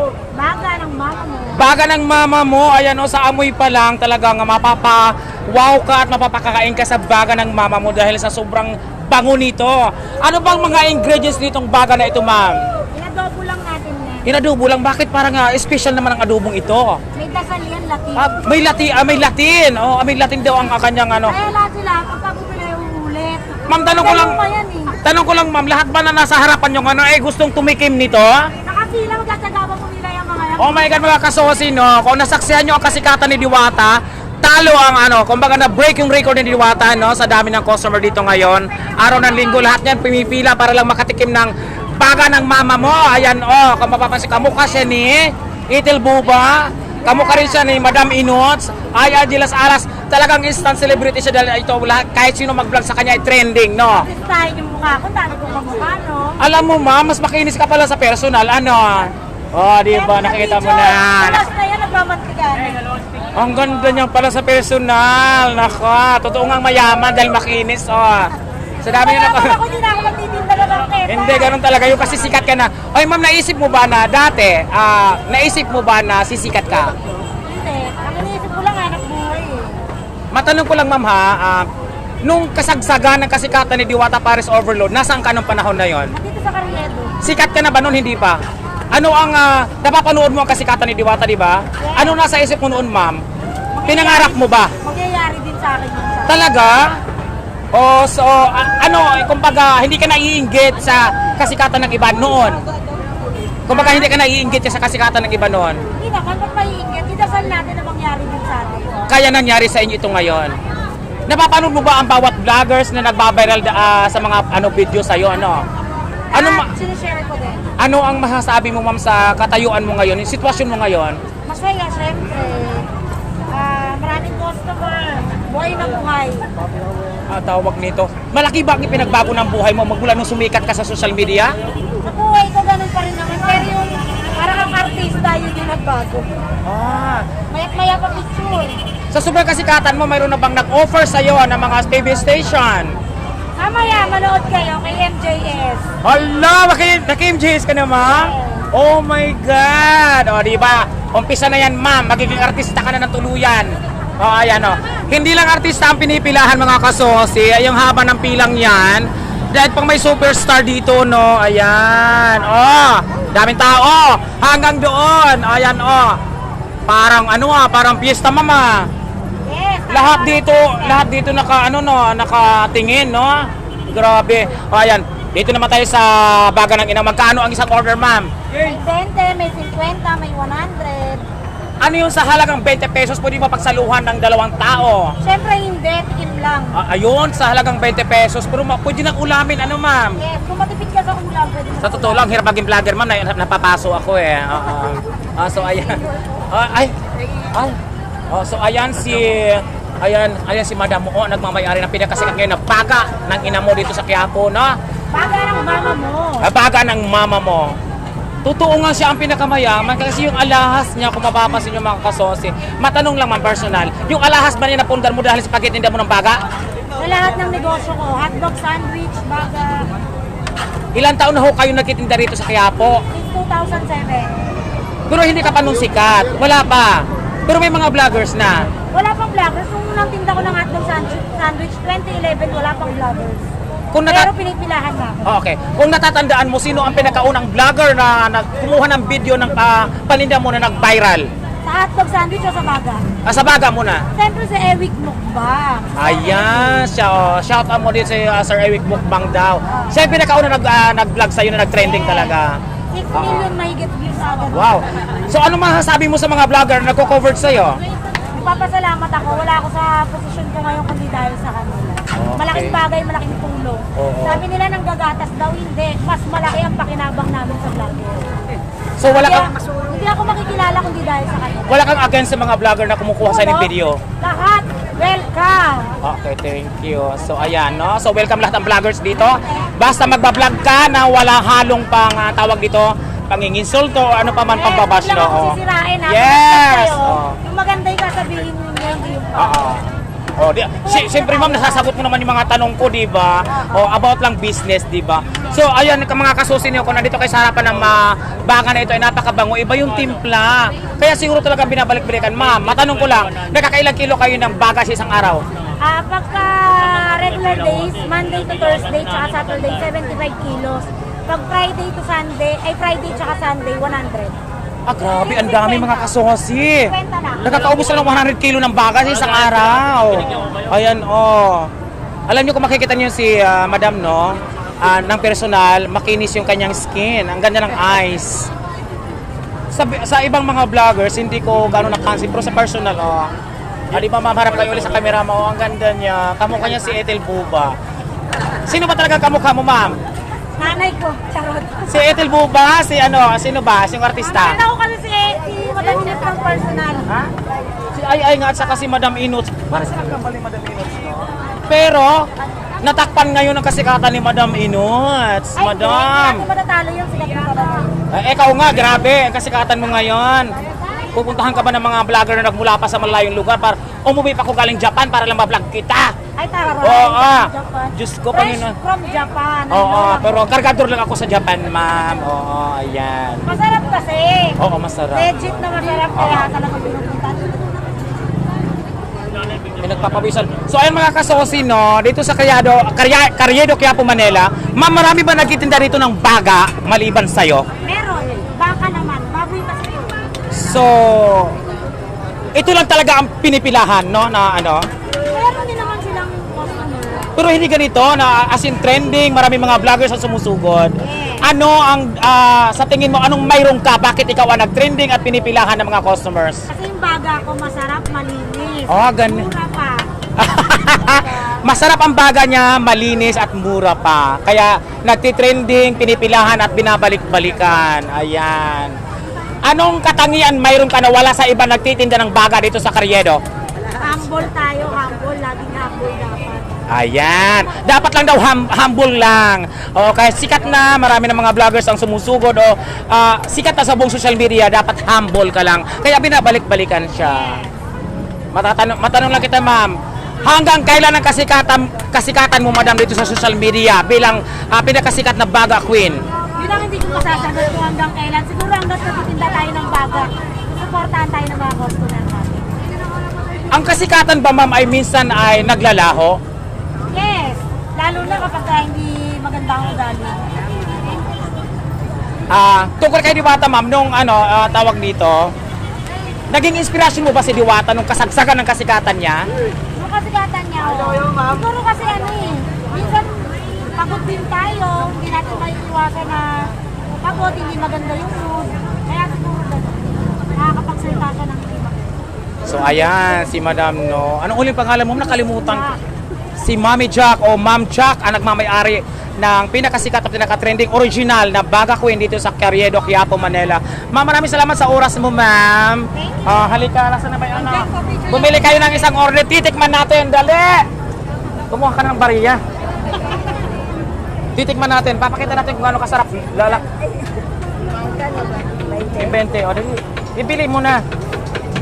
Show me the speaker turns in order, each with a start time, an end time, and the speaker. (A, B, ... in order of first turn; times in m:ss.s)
0:00.3-0:01.7 A
0:01.5-0:12.6 B
0:12.9-0:14.3 A
0:14.2-0:17.0 B
0:17.1-0:18.4 A
0:18.2-0:21.3 B
0:21.2-0:25.0 A
0:23.7-0:24.4 B
0:25.0-0:28.5 B
0:28.6-0:31.0 A
0:30.6-0:54.1 B
0:47.0-0:47.7 A
0:53.9-0:56.5 A
0:56.4-1:01.4 B
0:59.9-1:02.8 A
1:03.4-1:08.3 B
1:08.8-1:09.6 B
1:08.8-1:11.8 A
1:11.1-1:16.9 B
1:17.4-1:19.8 A
1:20.3-1:21.7 B
1:22.2-1:26.1 B
1:26.1-1:27.2 A
1:27.2-1:28.4 B
1:28.9-1:33.2 B
1:31.8-1:32.2 A
1:33.7-1:36.4 A
1:33.9-1:34.7 B
1:36.3-1:36.9 B
1:37.7-1:42.6 B
1:43.7-1:45.8 B
1:43.7-1:44.1 A
1:46.0-1:49.0 A
1:49.1-1:50.5 B
1:51.3-1:55.6 B
1:56.3-1:57.7 A
1:56.3-1:56.7 B
1:57.8-2:01.2 B
2:01.4-2:02.9 A
2:03.5-2:06.5 A
2:07.3-2:11.5 B
2:12.0-2:16.3 A
2:16.6-2:17.3 B
2:17.5-2:18.8 A
2:19.1-2:23.0 B
2:23.6-2:25.8 A
2:26.0-2:46.2 B
2:28.3-2:28.6 A
2:46.9-2:48.9 B
2:49.4-2:51.1 A
2:49.9-2:58.3 B
2:58.5-3:01.2 A
3:01.8-3:05.1 B
3:05.2-3:06.8 A
3:06.7-3:10.2 B
3:10.2-3:12.3 A
3:11.8-3:16.9 B
3:18.3-3:24.8 B
3:25.1-3:26.4 A
3:26.4-3:27.7 B
3:28.4-3:36.4 B
3:37.0-3:39.9 A
3:40.9-3:43.0 B
3:43.1-3:44.4 A
3:45.1-3:48.7 B
3:48.9-3:53.5 A
3:53.9-3:54.3 B
3:54.1-3:55.2 A
3:55.2-4:01.3 B
4:01.6-4:03.0 A
4:03.2-4:04.0 B
4:04.1-4:06.8 A
4:06.0-4:12.6 B
4:09.7-4:10.0 A
4:11.8-4:12.3 A
4:12.9-4:14.7 A
4:13.1-4:13.5 B
4:14.5-4:17.8 B
4:18.3-4:28.2 A
4:22.1-4:22.8 B
4:23.9-4:24.4 B
4:29.0-4:29.5 B
4:29.0-4:31.9 A
4:31.7-4:34.0 B
4:33.2-4:35.9 A
4:36.0-4:47.4 B
4:39.2-4:39.7 A
4:44.5-4:49.8 A
4:49.4-4:49.8 B
4:50.4-5:05.4 B
4:50.8-4:51.9 A
4:53.5-4:53.9 A
5:05.8-5:14.4 A
5:14.9-5:21.7 B
5:15.0-5:16.1 A
5:16.8-5:18.0 A
5:22.3-5:28.5 B
5:29.7-5:33.3 B
5:33.9-5:37.7 B
5:38.6-5:40.0 B
5:40.6-5:42.1 A
5:41.8-5:44.6 B
5:44.2-5:47.1 A
5:47.1-5:47.3 B
5:47.9-5:52.3 B
5:52.8-5:56.4 B
5:55.6-5:57.9 A
5:58.1-6:00.6 B
6:01.1-6:06.1 B
6:06.4-6:10.5 A
6:06.8-6:08.7 B
6:09.7-6:13.4 B
6:13.4-6:14.6 A
6:14.6-6:15.3 B
6:15.1-6:17.9 A
6:16.2-6:16.5 B
6:19.8-6:27.6 B
6:27.8-6:30.2 A
6:30.5-6:31.5 B
6:32.5-6:34.8 B
6:35.1-6:37.3 A
6:37.3-6:46.6 B
6:41.0-6:41.5 A
6:46.7-6:50.1 A
6:48.9-6:49.5 B
6:50.4-6:58.9 B
6:51.2-6:51.5 A
6:59.6-7:03.4 B
7:04.0-7:06.8 A
7:06.9-7:17.6 B
7:17.2-7:17.7 A
7:18.5-7:26.2 B
7:26.5-7:32.7 A
7:33.7-7:36.4 B
7:37.1-7:40.4 A
7:42.5-7:45.5 B
7:46.5-7:49.5 B
7:50.0-8:02.1 A
8:02.6-8:05.9 B
8:05.2-8:06.0 A
8:06.6-8:20.9 B
8:16.1-8:16.4 A
8:17.6-8:19.1 A
8:21.7-8:22.6 B
8:24.5-8:26.8 B
8:28.0-8:29.4 A
8:29.1-8:31.0 B